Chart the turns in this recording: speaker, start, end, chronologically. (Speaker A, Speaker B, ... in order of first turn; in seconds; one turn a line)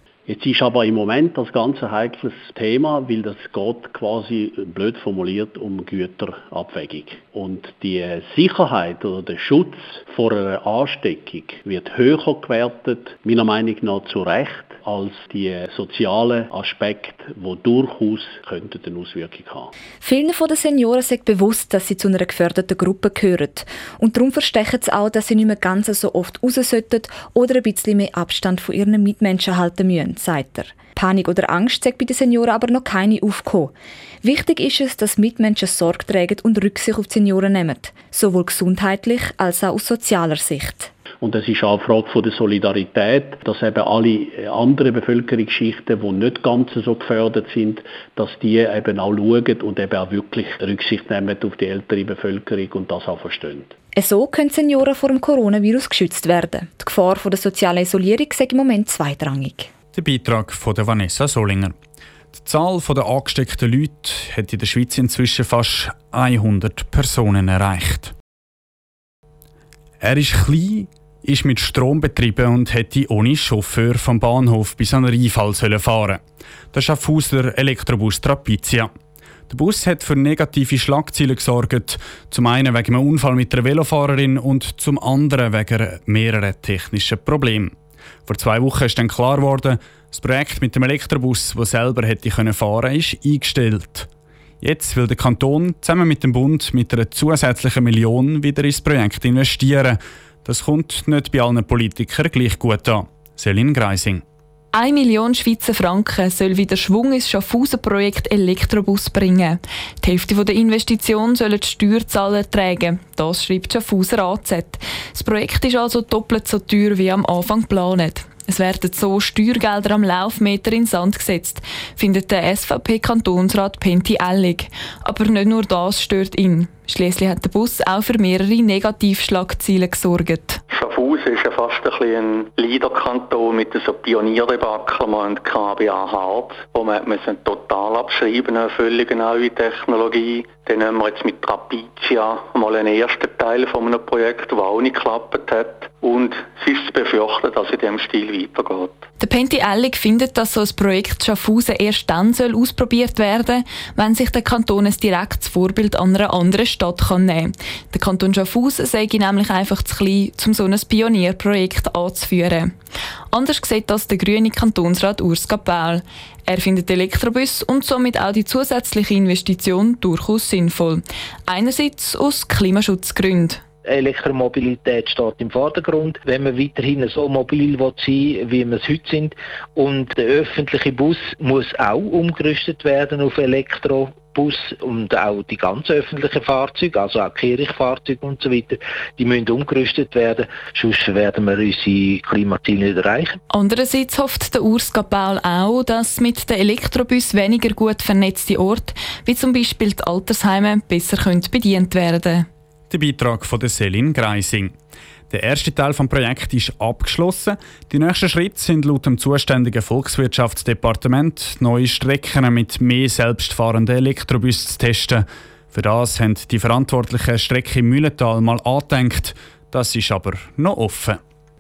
Speaker A: 0.3-19.7
Speaker B: 20.0-40.9
Speaker A: 41.2-53.7
Speaker B: 54.0-59.7
Speaker C: 59.9-61.7
Speaker C: 62.4-68.1
Speaker C: 70.0-76.2
Speaker C: 76.7-78.9
Speaker C: 79.5-87.7
Speaker C: 88.3-94.1
Speaker C: 94.6-104.2
Speaker D: 104.7-130.6
Speaker E: 130.7-149.0
Speaker D: 149.2-162.7
Speaker D: 163.3-173.6
Speaker F: 173.8-193.4
Speaker D: 193.5-202.5
Speaker C: 202.9-204.7
Speaker C: 205.3-221.2